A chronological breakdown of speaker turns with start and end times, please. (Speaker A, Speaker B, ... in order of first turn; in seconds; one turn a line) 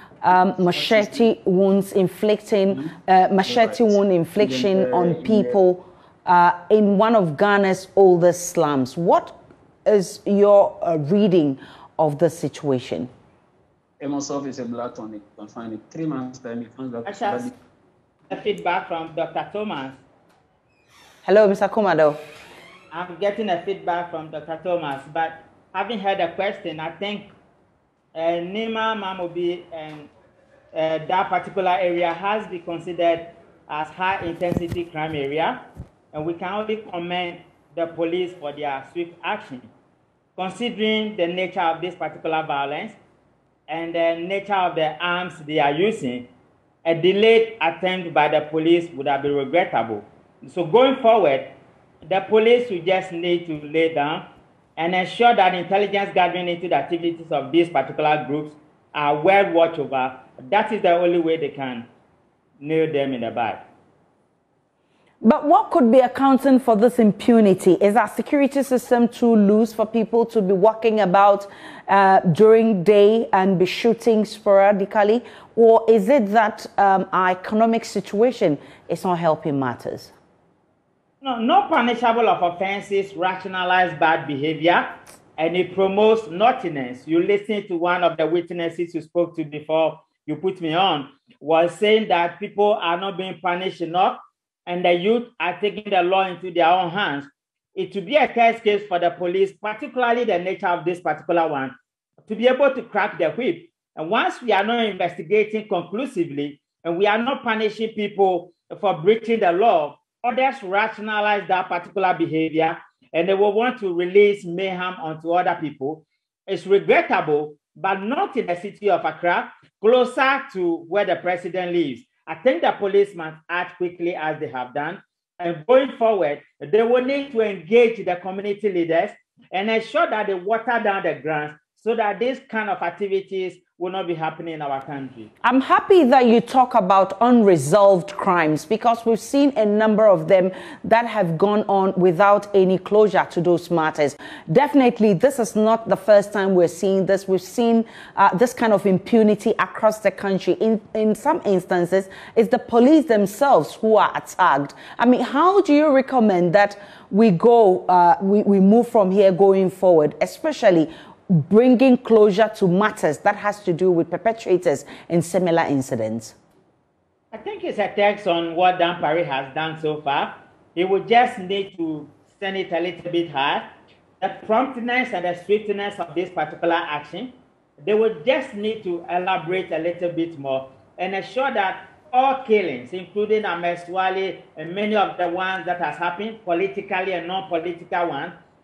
Speaker A: 0.2-13.1
Speaker B: 0.8-1.3
Speaker B: 3.5-5.6
Speaker B: 14.0-17.5
Speaker C: 17.1-17.5
Speaker C: 18.3-20.0
Speaker A: 21.2-22.2
Speaker C: 22.9-27.3
Speaker C: 28.1-30.1
Speaker C: 30.7-39.7
Speaker C: 40.4-43.0
Speaker C: 43.7-46.3
Speaker C: 46.9-51.5
Speaker C: 52.0-61.9
Speaker C: 62.6-63.6
Speaker A: 65.2-80.1
Speaker C: 81.2-101.7
Speaker C: 102.2-135.3
Speaker A: 135.4-166.3
Speaker C: 167.3-173.7
Speaker C: 174.2-188.3